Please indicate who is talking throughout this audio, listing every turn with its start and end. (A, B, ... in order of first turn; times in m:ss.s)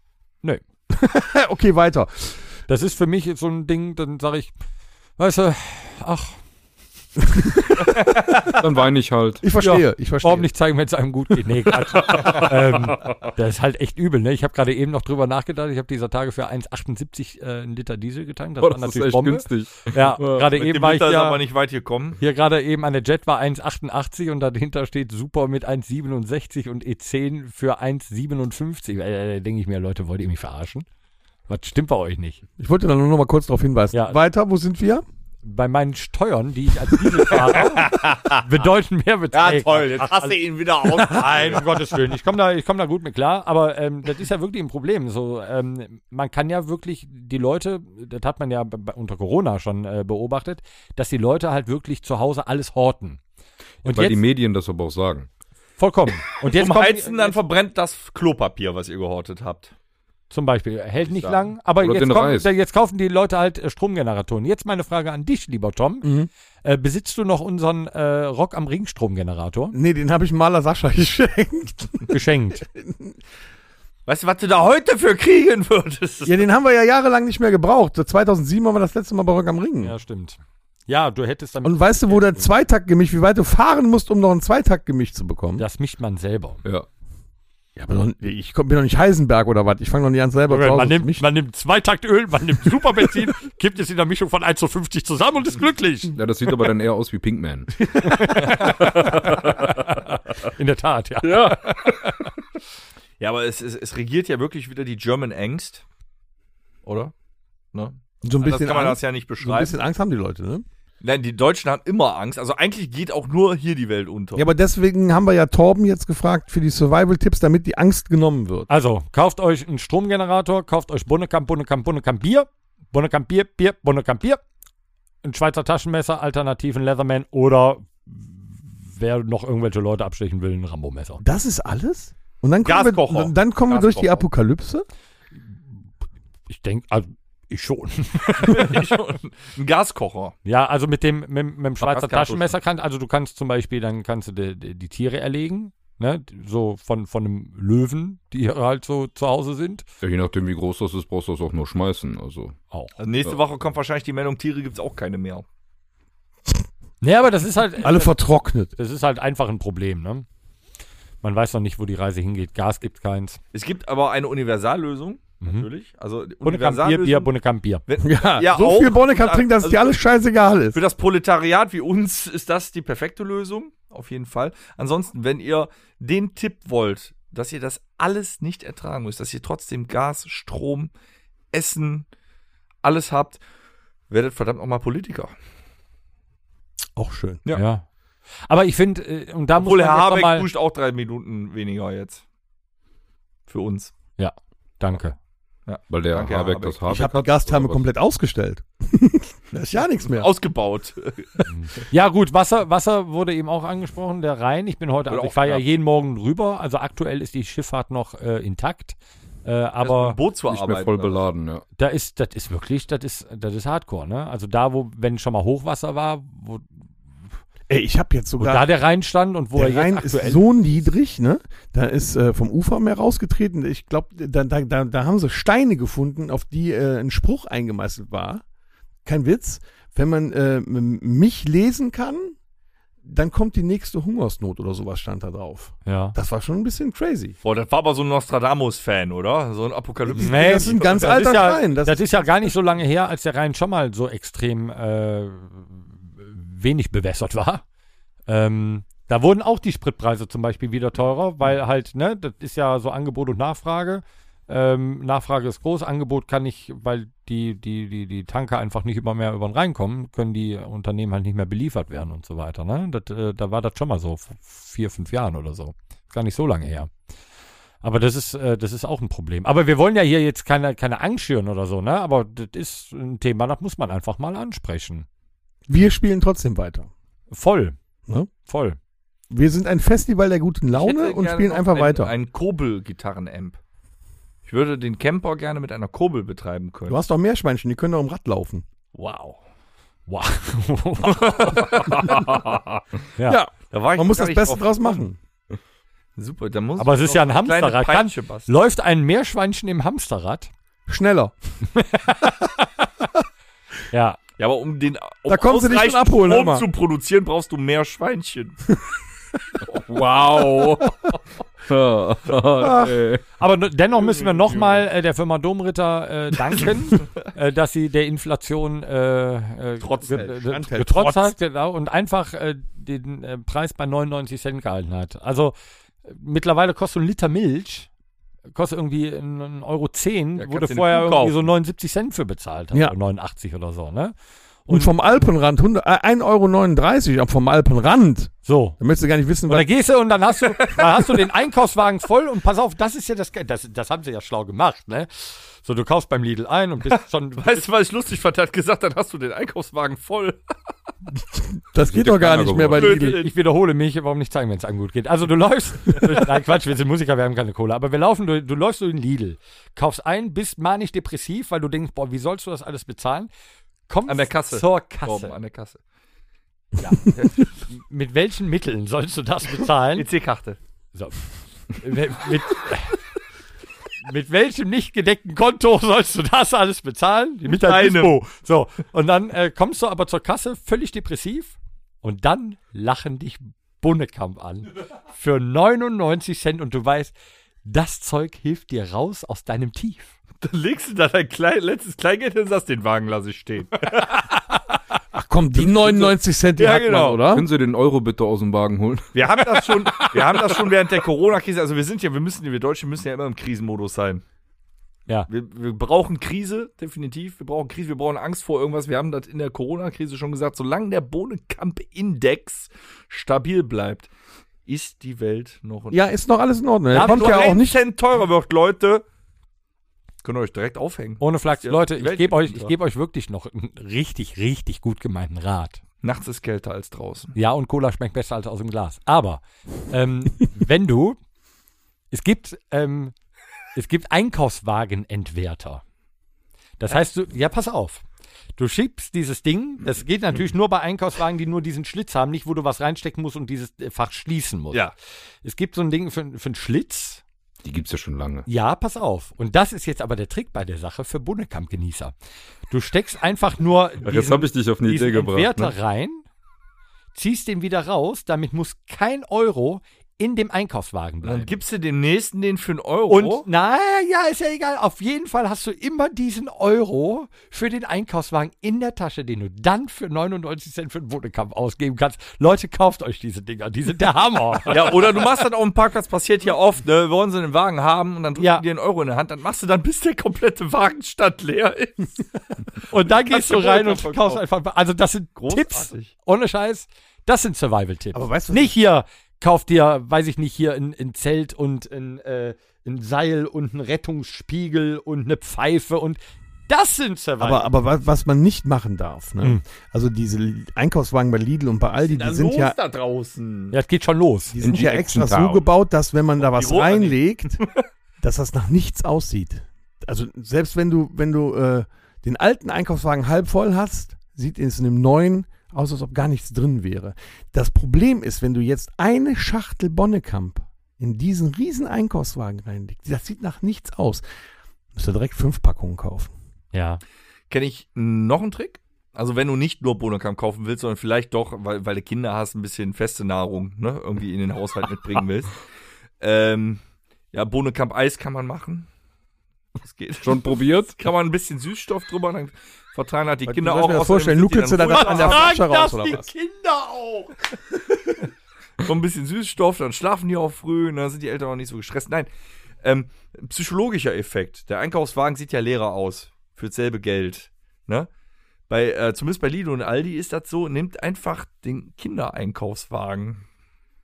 0:00.9-0:02.4 A
0:02.7-0:04.5 B
0:05.2-0:06.4 B
0:07.3-0:07.9 A
0:08.3-0:09.5 C
0:09.4-0:10.5 A
0:09.6-0:21.4 B
0:12.1-0:13.2 C
0:18.6-0:20.5 C
0:20.6-0:22.2 D
0:22.2-0:30.8 B
0:31.5-0:32.4 B
0:32.6-0:35.0 A
0:35.4-0:40.4 B
0:37.3-0:38.5 D
0:39.3-0:41.6 D
0:41.0-0:53.2 B
0:53.8-0:54.2 B
0:53.9-0:55.3 C
0:55.8-0:57.4 B
0:56.4-0:59.7 D
1:00.3-1:06.1 B
1:01.1-1:01.5 D
1:01.8-1:02.5 C
1:06.0-1:06.3 A
1:06.6-1:09.8 B
1:09.7-1:13.2 A
1:12.1-1:12.6 B
1:14.1-1:16.4 D
1:16.2-1:20.0 A
1:19.8-1:22.5 B
1:21.6-1:25.6 A
1:25.6-1:26.6 B
1:27.8-1:31.3 A
1:30.5-1:36.2 B
1:36.2-1:40.4 C
1:38.0-1:42.3 B
1:38.4-1:38.8 D
1:41.2-1:42.1 C
1:43.2-1:45.8 D
1:46.8-1:47.1 D
1:47.7-1:49.7 D
1:48.2-1:50.6 A
1:51.0-1:54.5 D
1:54.4-1:58.7 A
1:58.7-2:04.4 B
2:05.2-2:11.2 B
2:11.2-2:14.9 A
2:12.6-2:14.2 D
2:16.5-2:18.8 B
2:18.4-2:20.4 D
2:20.4-2:29.8 B
2:21.8-2:22.6 D
2:30.0-2:32.6 C
2:32.7-2:33.0 B
2:33.0-2:35.4 D
2:37.0-2:38.2 B
2:37.8-2:38.7 A
2:38.8-2:40.3 B
2:41.2-2:43.4 B
2:43.5-2:47.3 D
2:45.4-2:45.7 B
2:46.4-2:47.8 B
2:47.9-2:50.0 D
2:48.0-2:50.8 A
2:50.7-3:00.9 D
3:01.5-3:02.1 D
3:02.8-3:03.4 D
3:04.1-3:05.3 D
3:07.0-3:07.4 A
3:07.5-3:07.8 B
3:08.5-3:10.5 B
3:09.6-3:12.2 D
3:13.5-3:13.9 D
3:14.2-3:15.2 B
3:15.7-3:17.0 D
3:15.9-3:17.8 C
3:16.9-3:20.3 A
3:20.1-3:21.4 D
3:21.5-3:30.2 B
3:25.1-3:25.6 D
3:29.8-3:31.2 D
3:30.5-3:31.6 C
3:31.8-3:36.7 B
3:37.7-3:38.7 A
3:38.4-3:40.4 B
3:39.5-3:48.4 A
3:49.0-3:52.4 A
3:53.0-3:57.4 A
3:55.8-3:56.2 B
3:57.4-4:01.4 D
4:00.0-4:02.5 A
4:00.2-4:07.6 B
4:08.3-4:26.9 B
4:27.8-4:35.1 B
4:35.7-4:36.9 A
4:37.3-4:37.8 B
4:38.4-4:38.8 B
4:39.3-4:42.1 A
4:40.7-4:43.6 D
4:44.5-4:47.0 D
4:46.9-4:48.6 A
4:49.0-4:49.4 D
4:50.1-4:51.7 B
4:51.1-4:52.1 D
4:53.2-4:55.2 A
4:53.7-4:55.0 D
4:56.2-4:58.5 D
4:56.8-5:00.5 B
5:00.9-5:01.4 A
5:01.7-5:02.8 B
5:03.9-5:04.2 B
5:04.4-5:08.8 D
5:05.3-5:06.7 A
5:09.6-5:11.1 C
5:11.7-5:13.2 C
5:13.4-5:25.5 B
5:14.0-5:14.6 D
5:19.8-5:20.2 D
5:20.1-5:21.4 A
5:26.0-5:27.9 B
5:28.5-5:34.1 B
5:30.4-5:31.4 D
5:34.7-5:34.9 B
5:34.7-5:39.7 A
5:38.5-5:38.8 B
5:39.5-5:47.7 B
5:40.6-5:40.8 D
5:47.4-5:50.4 D
5:51.3-5:53.2 A
5:51.8-5:53.0 C
5:52.7-5:53.3 D
5:53.2-6:03.3 B
6:03.9-6:05.3 B
6:04.1-6:05.8 D
6:06.8-6:10.1 B
6:10.0-6:10.6 D
6:10.9-6:13.0 B
6:14.0-6:27.1 B
6:17.5-6:18.1 D
6:27.6-6:30.1 B
6:30.4-6:34.2 D
6:35.1-6:37.5 A
6:36.6-6:37.2 D
6:37.2-6:39.1 C
6:39.1-6:44.2 D
6:39.9-6:40.2 B
6:45.3-6:54.1 D
6:54.7-6:56.0 D
6:55.9-6:57.8 A
6:56.9-6:57.6 B
6:56.9-6:59.0 D
7:00.2-7:02.7 D
7:01.2-7:05.8 B
7:06.0-7:07.4 D
7:07.4-7:11.2 B
7:12.1-7:13.1 B
7:13.8-7:15.8 B
7:16.8-7:18.0 B
7:18.6-7:24.9 B
7:25.4-7:27.2 B
7:27.6-7:28.5 C
7:28.5-7:32.1 B
7:32.7-7:36.2 B
7:34.0-7:35.7 C
7:37.2-7:41.6 B
7:41.2-7:43.5 D
7:43.1-7:55.0 B
7:54.7-8:02.2 D
7:58.4-7:58.6 B
8:02.9-8:17.7 B
8:03.0-8:04.4 D
8:05.4-8:06.1 D
8:08.1-8:08.8 A
8:17.4-8:22.8 A
8:22.0-8:23.8 D
8:23.7-8:24.6 B
8:24.5-8:27.6 A
8:24.6-8:25.6 C
8:26.4-8:27.8 D
8:28.2-8:44.2 A
8:45.0-8:46.3 A
8:46.7-8:47.0 B
8:47.5-8:55.6 D
8:56.2-8:56.8 D
8:57.3-8:58.9 D
8:59.8-9:05.5 D
9:00.2-9:01.0 C
9:03.5-9:06.3 A
9:04.9-9:07.3 B
9:08.8-9:12.3 D
9:12.8-9:18.1 D
9:18.7-9:23.4 D